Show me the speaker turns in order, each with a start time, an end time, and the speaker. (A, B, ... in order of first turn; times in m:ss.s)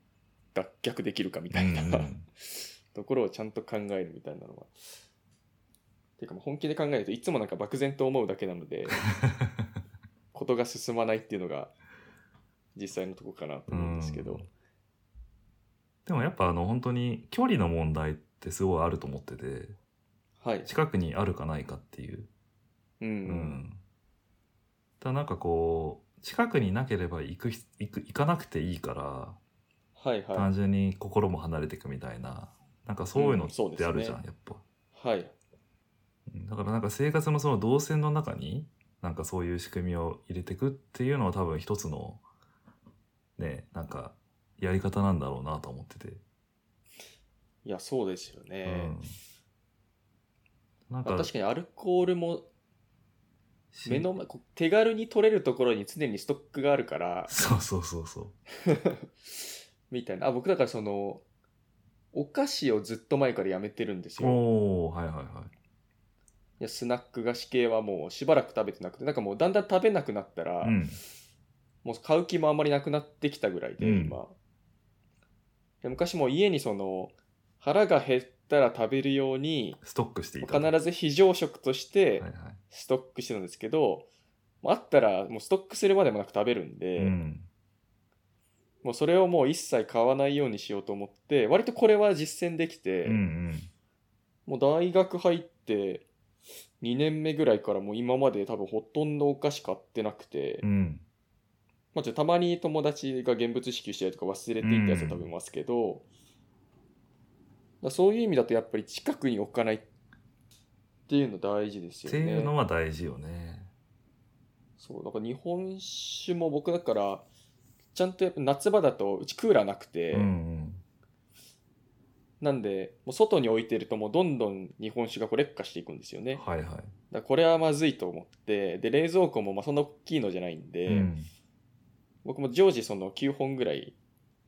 0:00.5-0:04.7 A
0:01.5-0:02.3 B
0:06.2-0:09.0 A
0:09.2-0:09.7 B
0:10.3-0:11.7 A
0:12.8-0:14.4 A
0:13.7-0:14.5 B
0:16.1-0:19.8 B
0:20.4-0:20.7 A
0:20.7-0:22.3 B
0:23.0-0:23.6 A
0:23.3-0:23.8 B
0:25.0-0:29.4 B
0:30.0-0:30.5 A
0:30.3-0:34.6 B
0:33.2-0:34.2 A
0:34.9-0:35.3 A
0:36.3-0:42.2 B
0:43.4-0:46.2 B
0:47.6-0:49.0 A
0:48.7-0:49.2 B
0:50.9-0:51.3 B
0:51.0-0:52.5 A
0:53.7-0:54.1 B
0:53.8-0:57.3 A
0:57.3-0:58.4 B
0:58.7-1:01.2 A
1:02.1-1:04.4 A
1:04.2-1:05.5 B
1:06.6-1:10.8 A
1:10.6-1:11.0 B
1:11.8-1:14.4 A
1:13.8-1:14.2 B
1:15.8-1:19.8 A
1:19.8-1:20.7 B
1:20.4-1:24.1 A
1:22.2-1:22.6 B
1:24.6-1:27.2 A
1:27.0-1:27.5 B
1:28.8-1:33.2 A
1:33.0-1:33.7 B
1:34.5-1:36.1 A
1:36.8-1:40.6 A
1:40.6-1:41.0 B
1:41.9-1:46.0 A
1:44.6-1:45.3 B
1:47.8-1:49.8 A
1:51.1-1:52.5 A
1:52.0-1:53.7 B
1:54.8-1:57.2 A
1:57.9-2:00.3 A
2:00.1-2:00.8 B
2:02.4-2:06.4 A
2:06.4-2:06.9 B
2:07.1-2:11.1 A
2:10.9-2:11.3 B
2:12.2-2:14.0 A